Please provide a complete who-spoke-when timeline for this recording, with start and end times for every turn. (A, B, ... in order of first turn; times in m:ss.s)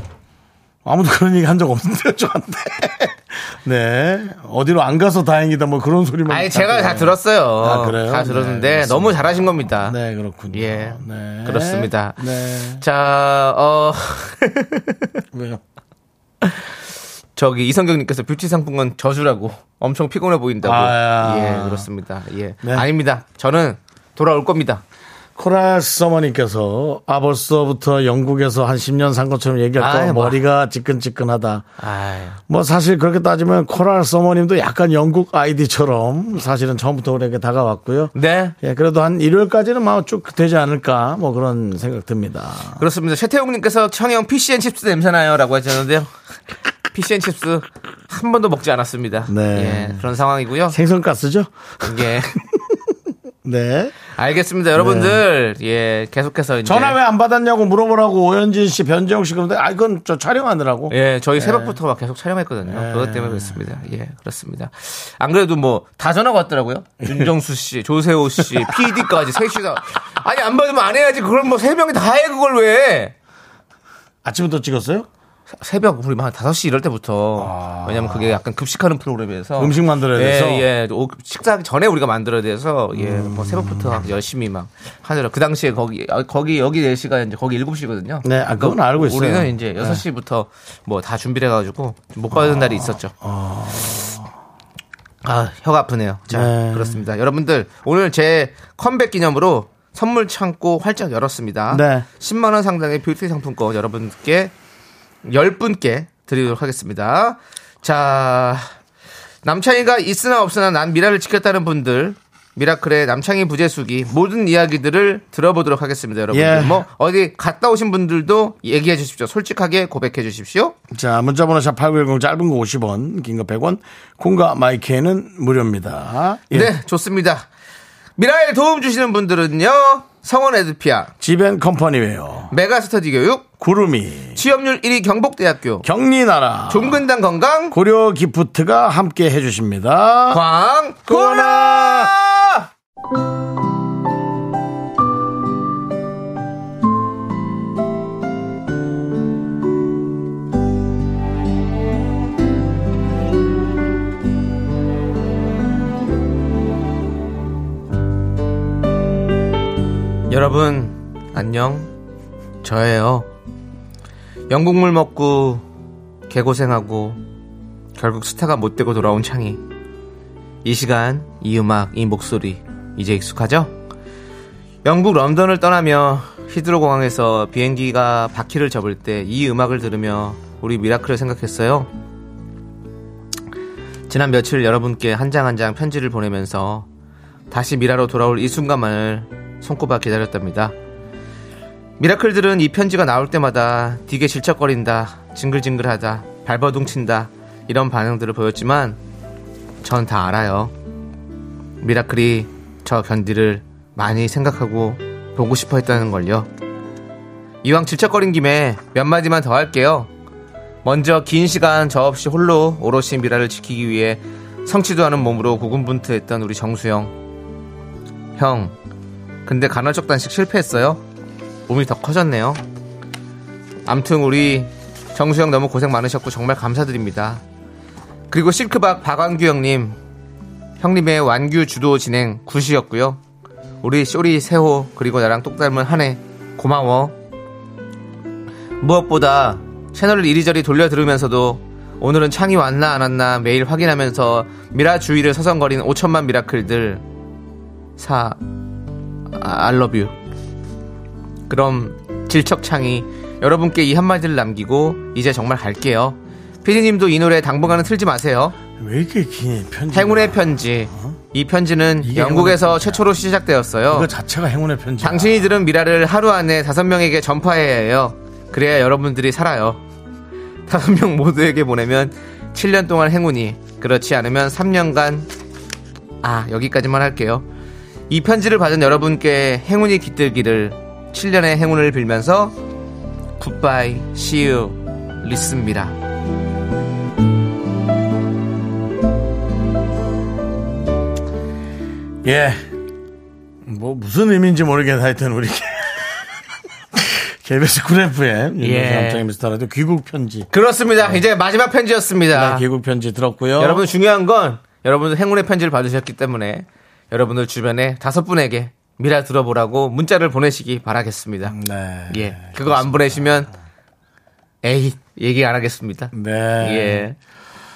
0:00.8-0:12.8 A
0:06.3-0:10.0 B
0:10.5-0:15.1 B
0:15.3-0:15.6 A
0:17.4-0:24.8 B
0:20.6-0:21.9 A
0:22.6-0:22.9 A
0:25.4-0:31.6 A
0:29.8-0:30.4 B
0:31.8-0:32.4 B
0:32.5-0:42.8 A
0:38.1-0:38.6 B
0:42.8-0:46.1 B
0:46.9-0:50.8 B
0:49.3-0:50.1 A
0:50.7-0:52.7 A
0:51.8-0:52.4 B
0:53.4-0:53.9 A
0:54.1-0:57.0 B
0:54.8-0:55.2 A
0:56.6-1:01.8 A
1:00.9-1:13.1 B
1:02.7-1:03.6 A
1:08.6-1:09.0 A
1:14.2-1:15.1 A
1:15.6-1:33.1 B
1:17.4-1:18.4 A
1:19.6-1:20.7 A
1:22.9-1:24.0 A
1:28.2-1:30.0 A
1:32.3-1:34.3 A
1:35.2-1:44.5 B
1:36.3-1:37.0 A
1:41.7-1:42.1 A
1:45.2-1:48.7 B
1:49.4-2:00.8 B
1:56.3-1:56.9 A
2:00.9-2:06.7 A
2:06.5-2:07.4 B
2:08.2-2:11.1 B
2:11.2-2:12.5 A
2:12.5-2:13.5 B
2:13.6-2:14.4 A
2:14.4-2:15.9 B
2:15.8-2:17.0 A
2:16.7-2:17.8 B
2:17.7-2:20.4 A
2:20.3-2:22.7 B
2:21.1-2:22.1 A
2:40.3-2:41.9 B
2:42.6-2:43.3 B
2:44.5-2:45.6 B
2:46.3-2:47.2 B
2:48.0-2:49.6 B
2:50.6-2:53.7 B
2:54.8-3:01.9 B
3:04.1-3:06.9 B
3:07.5-3:10.7 B
3:12.0-3:19.0 B
3:19.8-3:20.7 B
3:21.8-3:26.5 B
3:27.6-3:30.1 B
3:30.8-3:37.1 B
3:38.4-3:38.8 B
3:39.4-3:41.0 B
3:41.7-3:42.6 B
3:43.9-3:47.4 B
3:48.3-3:50.0 B
3:50.8-3:53.2 B
3:53.8-3:57.1 B
3:58.8-4:07.0 B
4:08.0-4:08.4 B
4:09.3-4:10.1 B
4:11.5-4:18.6 B
4:18.8-4:21.2 A
4:19.9-4:24.1 B
4:22.0-4:23.0 A
4:23.9-4:25.5 A
4:25.0-4:29.8 B
4:30.7-4:35.3 B
4:36.2-4:37.4 B
4:38.1-4:42.6 B
4:43.4-4:45.9 B
4:52.2-4:52.7 A
4:53.7-4:56.3 A
4:56.9-5:00.5 A
4:58.6-4:59.2 B
5:00.5-5:02.7 B
5:01.0-5:01.3 A
5:02.3-5:03.8 A
5:03.6-5:11.6 B
5:11.5-5:13.5 A
5:12.1-5:13.5 B
5:14.6-5:17.2 B
5:16.1-5:17.1 A